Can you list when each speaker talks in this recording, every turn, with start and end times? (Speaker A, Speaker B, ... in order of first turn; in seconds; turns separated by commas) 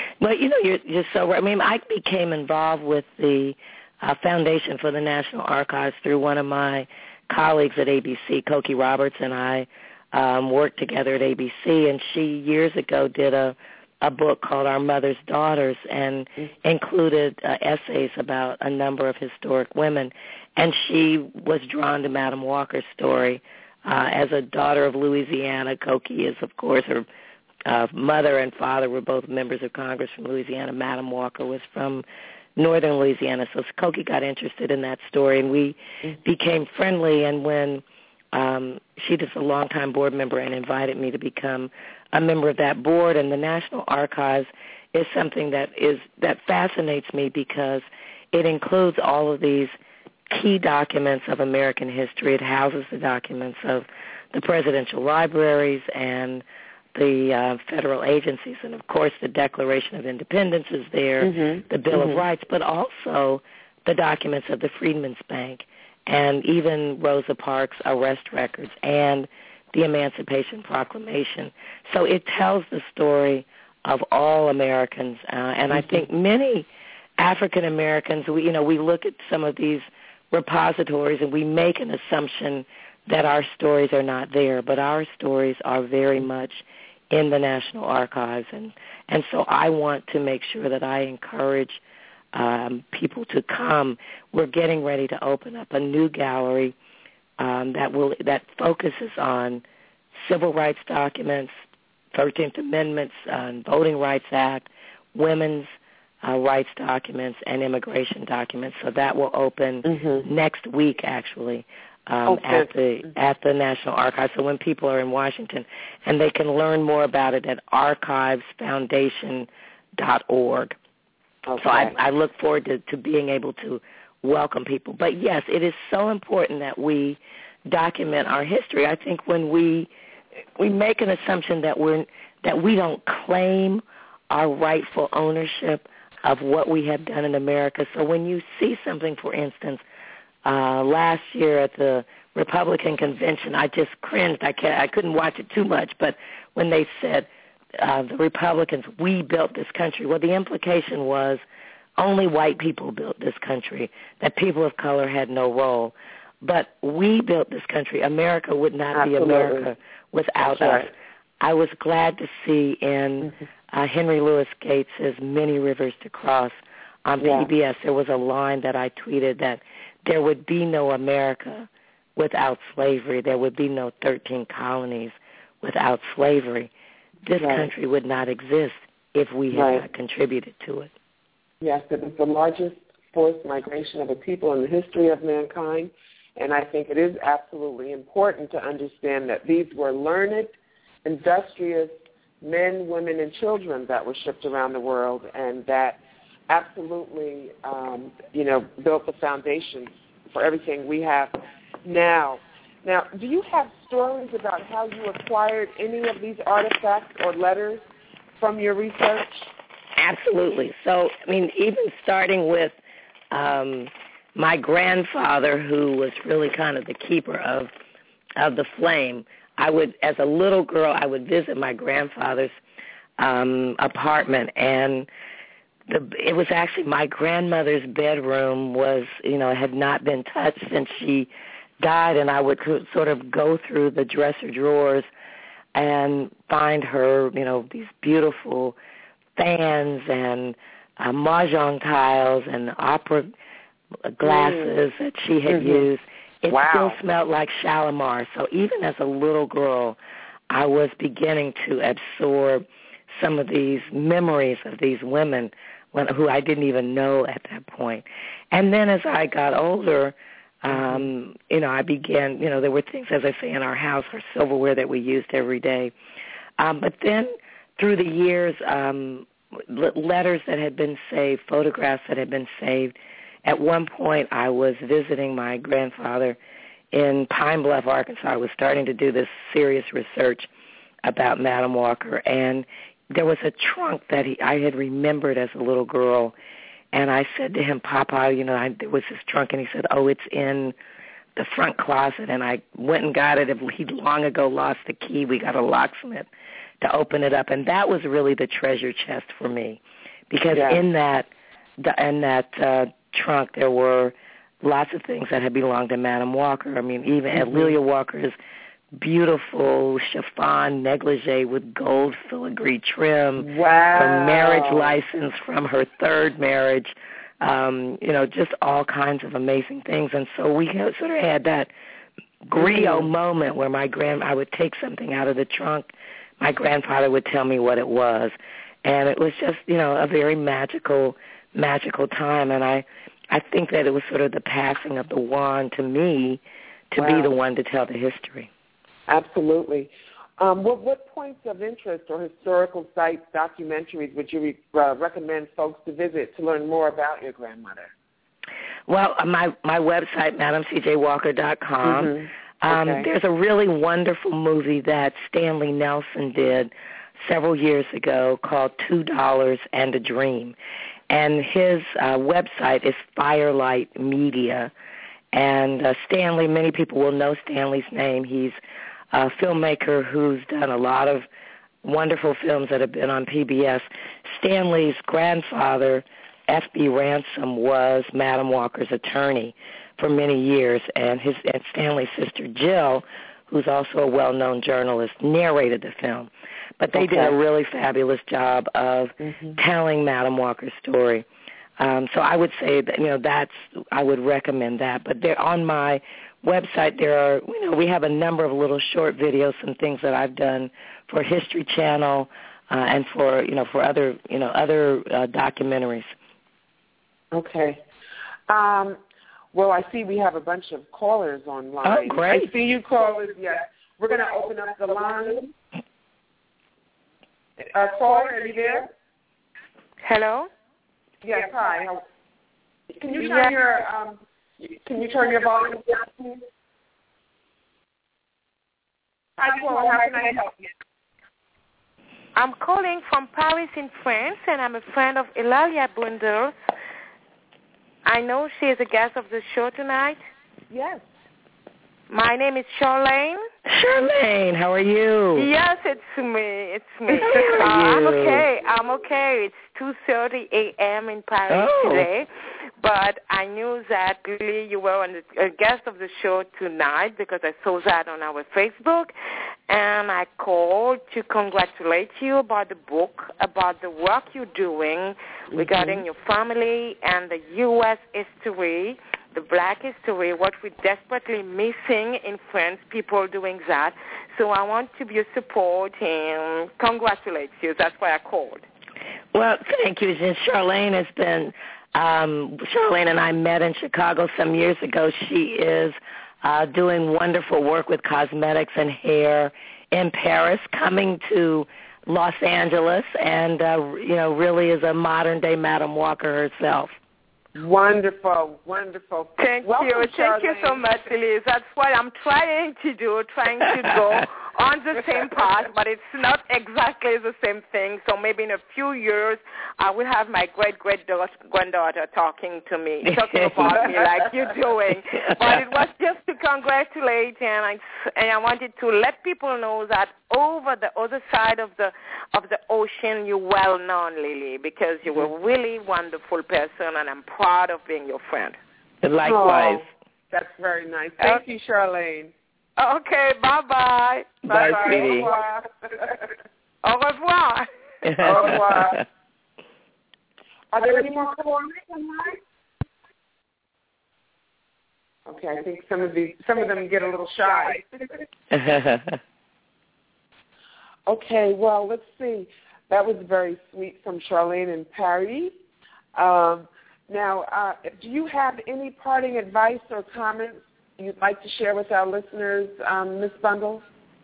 Speaker A: 0.2-27.1, Speaker A: 27.6-32.0, Speaker A: 32.6-49.7, Speaker A: 50.3-56.4, Speaker A: 57.0-76.7, Speaker B: 61.2-62.2, Speaker A: 77.2-91.8, Speaker A: 92.3-96.7, Speaker A: 97.4-99.6, Speaker A: 100.2-101.5, Speaker A: 102.1-105.7, Speaker A: 106.2-120.8, Speaker B: 109.8-110.3, Speaker B: 112.3-112.7, Speaker B: 121.5-121.9, Speaker A: 121.6-129.9, Speaker A: 130.6-139.8, Speaker A: 140.4-151.4, Speaker A: 152.0-176.7, Speaker B: 158.9-159.7, Speaker B: 160.5-160.9, Speaker B: 167.2-167.5, Speaker A: 177.2-180.9, Speaker B: 177.4-177.7, Speaker B: 179.5-179.8, Speaker B: 181.6-207.8, Speaker B: 208.4-209.5, Speaker A: 210.0-212.8, Speaker A: 213.3-217.7, Speaker A: 218.4-222.6, Speaker A: 223.2-225.1, Speaker A: 225.9-231.3, Speaker A: 231.8-235.1, Speaker A: 235.7-238.8, Speaker A: 239.4-243.3, Speaker A: 244.1-250.0, Speaker B: 244.2-244.8, Speaker B: 245.5-245.9, Speaker B: 246.5-247.0, Speaker A: 250.5-265.9, Speaker B: 260.7-261.1, Speaker A: 266.6-276.4, Speaker A: 276.9-280.5, Speaker A: 281.1-286.3, Speaker A: 286.9-290.8, Speaker A: 291.4-296.3, Speaker A: 296.8-308.4, Speaker B: 300.5-300.8, Speaker B: 307.3-307.8, Speaker A: 309.0-321.7, Speaker B: 313.4-315.0, Speaker A: 322.4-336.4, Speaker B: 322.6-323.1, Speaker A: 336.9-338.5, Speaker B: 337.0-337.3, Speaker B: 339.1-347.9, Speaker A: 348.9-360.6, Speaker B: 351.8-353.1, Speaker A: 361.1-364.7, Speaker A: 365.3-368.6, Speaker A: 369.1-371.3, Speaker A: 371.8-391.2, Speaker B: 386.9-387.4, Speaker B: 389.2-389.6, Speaker A: 391.8-406.1, Speaker B: 407.3-407.8, Speaker B: 408.5-409.0, Speaker B: 409.5-415.5, Speaker A: 411.8-412.5, Speaker B: 417.6-418.9, Speaker C: 420.0-420.5, Speaker B: 421.2-422.0, Speaker B: 422.9-426.4, Speaker C: 423.2-423.5, Speaker B: 429.4-430.6, Speaker C: 432.4-436.5, Speaker C: 438.1-440.2, Speaker B: 440.7-441.1, Speaker C: 442.1-443.4, Speaker A: 443.7-445.5, Speaker C: 445.4-452.3, Speaker A: 447.2-448.5, Speaker A: 451.5-452.1, Speaker C: 452.8-459.1, Speaker C: 459.7-478.6, Speaker B: 465.5-466.0, Speaker A: 479.3-497.0, Speaker B: 497.6-501.1, Speaker C: 499.4-528.6, Speaker A: 513.0-513.7, Speaker A: 515.4-515.6, Speaker A: 529.0-529.9, Speaker B: 529.2-532.3, Speaker C: 532.8-535.3, Speaker A: 534.5-535.3, Speaker B: 534.5-536.2, Speaker C: 536.8-538.2, Speaker A: 538.0-539.0, Speaker B: 538.2-539.0, Speaker B: 540.7-542.4, Speaker B: 545.3-548.3, Speaker A: 548.5-549.2, Speaker B: 551.1-555.5, Speaker B: 556.1-563.9